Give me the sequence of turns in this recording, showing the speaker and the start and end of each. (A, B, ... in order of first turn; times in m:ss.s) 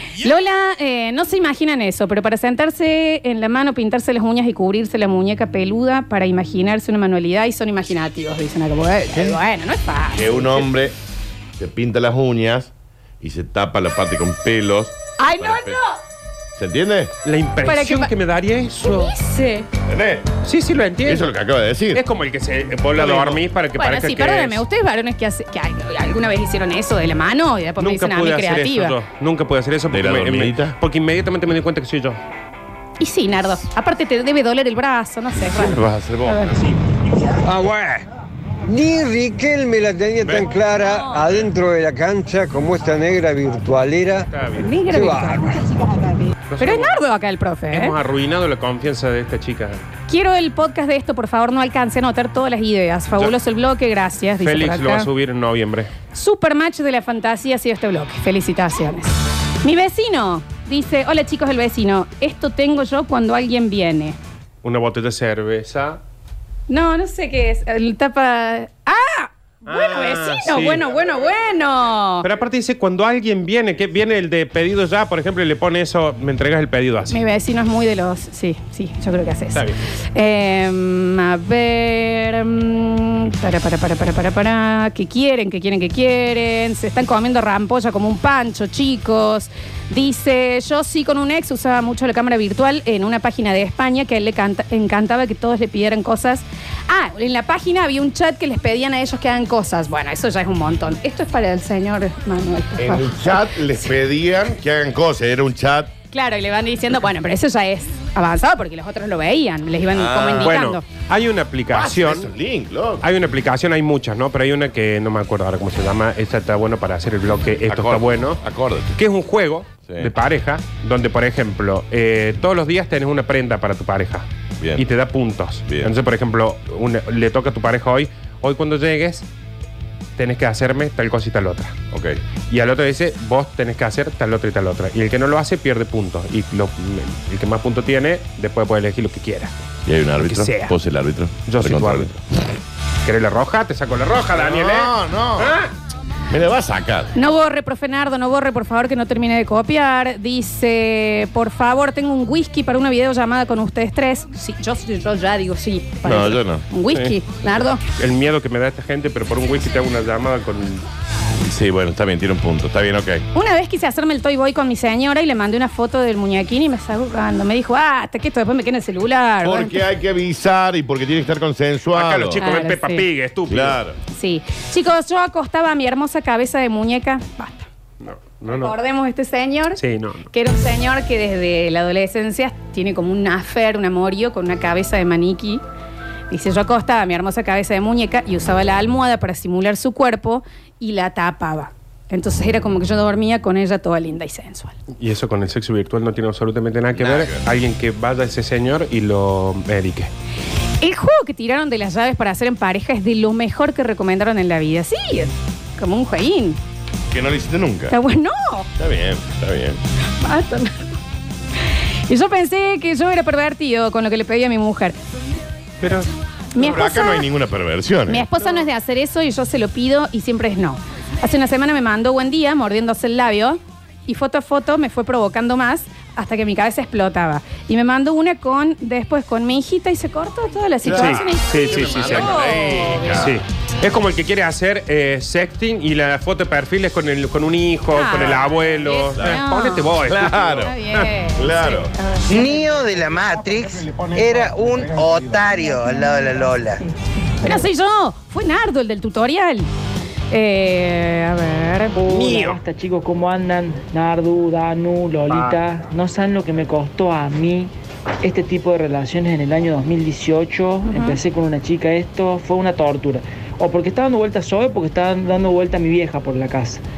0:00.2-0:10.6 A
0:10.1-0:10.9 B
0:11.6-0:15.8 B
0:15.2-0:16.0 A
0:16.6-0:17.1 B
0:17.2-0:19.1 C
0:17.6-0:18.1 A
0:18.8-0:19.7 A
0:19.9-0:20.3 B
0:20.4-0:21.3 C
0:21.0-0:22.0 B
0:21.9-0:24.6 C
0:22.9-0:23.4 B
0:23.8-0:29.0 A
0:27.8-0:32.2 C
0:29.9-0:30.7 B
0:33.0-0:36.7 A
0:35.5-0:36.6 B
0:37.4-0:38.0 D
0:38.6-0:44.3 D
0:44.3-0:44.7 C
0:44.6-0:47.9 A
0:44.8-0:45.6 D
0:46.5-0:47.0 C
0:47.7-0:49.8 C
0:50.1-0:55.1 A
0:54.4-0:55.9 C
0:56.1-1:04.2 A
1:04.6-1:06.0 C
1:06.7-1:12.3 A
1:09.7-1:10.8 C
1:12.2-1:17.2 C
1:17.1-1:43.9 A
1:19.5-1:19.8 C
1:42.8-1:45.9 B
1:46.1-1:50.8 A
1:49.9-1:50.6 B
1:50.4-1:52.3 C
1:51.7-1:53.0 B
1:53.0-1:58.4 C
1:57.7-1:58.9 B
1:58.9-2:09.2 C
1:59.9-2:00.1 B
2:05.7-2:05.9 B
2:10.2-2:11.7 C
2:11.9-2:12.2 B
2:12.5-2:19.5 C
2:19.8-2:22.1 B
2:20.2-2:20.7 C
2:21.4-2:22.2 C
2:23.0-2:25.7 C
2:24.3-2:25.6 B
2:26.3-2:27.1 B
2:27.1-2:37.8 A
2:36.0-2:36.6 B
2:36.9-2:40.8 C
2:41.4-2:43.2 B
2:43.3-2:49.8 A
2:49.4-2:52.4 B
2:51.9-2:53.8 C
2:52.4-2:53.0 A
2:53.5-2:54.0 B
2:54.1-2:57.7 A
2:58.0-2:58.7 C
2:58.4-2:59.8 A
2:59.8-3:00.3 C
3:00.3-3:05.6 A
3:06.3-3:14.8 A
3:15.0-3:20.1 C
3:16.9-3:17.4 B
3:20.8-3:26.6 A
3:27.1-3:27.9 B
3:27.9-3:28.7 A
3:28.8-3:29.8 B
3:30.2-3:31.0 A
3:32.1-3:34.9 A
3:35.8-3:36.1 C
3:36.5-3:37.2 A
3:36.6-3:38.3 B
3:38.1-3:53.3 A
3:50.8-3:53.4 B
3:50.9-4:00.4 C
3:57.9-4:02.6 A
3:59.2-4:00.7 B
4:01.4-4:01.9 B
4:02.3-4:06.8 E
4:07.4-4:09.7 A
4:10.3-4:12.0 A
4:11.9-4:17.7 F
4:12.1-4:12.6 C
4:15.3-4:15.6 C
4:18.2-4:26.8 F
4:20.8-4:21.2 A